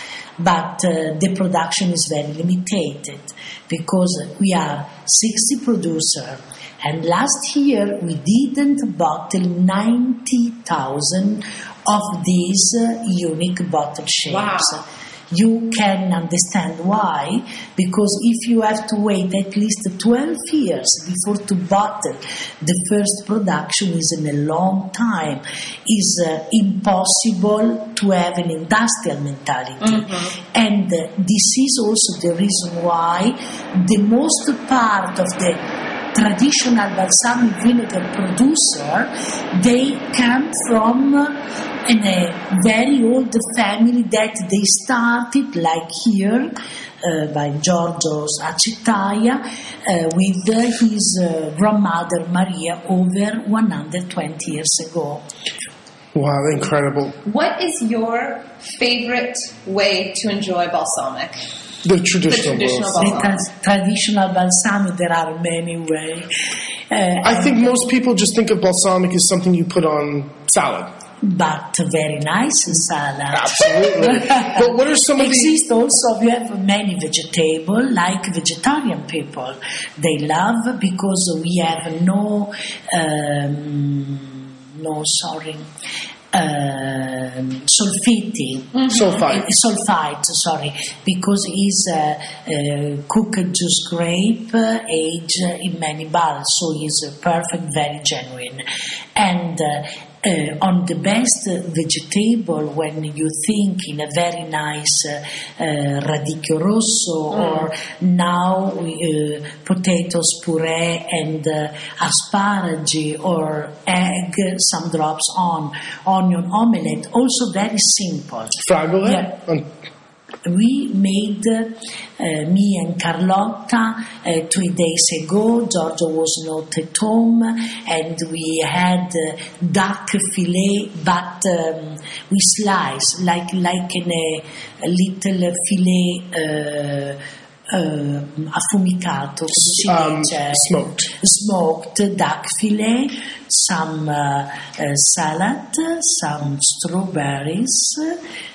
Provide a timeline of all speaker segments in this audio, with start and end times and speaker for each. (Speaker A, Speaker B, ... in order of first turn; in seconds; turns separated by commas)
Speaker A: 0.4-35.6, Speaker B: 14.2-14.8, Speaker B: 29.8-30.3, Speaker A: 36.1-55.2, Speaker C: 56.1-57.2, Speaker B: 57.2-61.4, Speaker C: 61.8-63.1, Speaker B: 62.3-63.4, Speaker A: 63.0-66.3, Speaker A: 66.9-67.6, Speaker C: 67.2-70.9, Speaker A: 71.2-85.7, Speaker C: 73.3-75.6, Speaker A: 86.3-98.6, Speaker B: 88.7-89.0, Speaker C: 88.9-89.5, Speaker A: 99.2-119.3, Speaker B: 107.3-107.7, Speaker C: 118.6-119.7, Speaker A: 120.4-137.2, Speaker A: 137.7-148.2, Speaker C: 139.5-141.1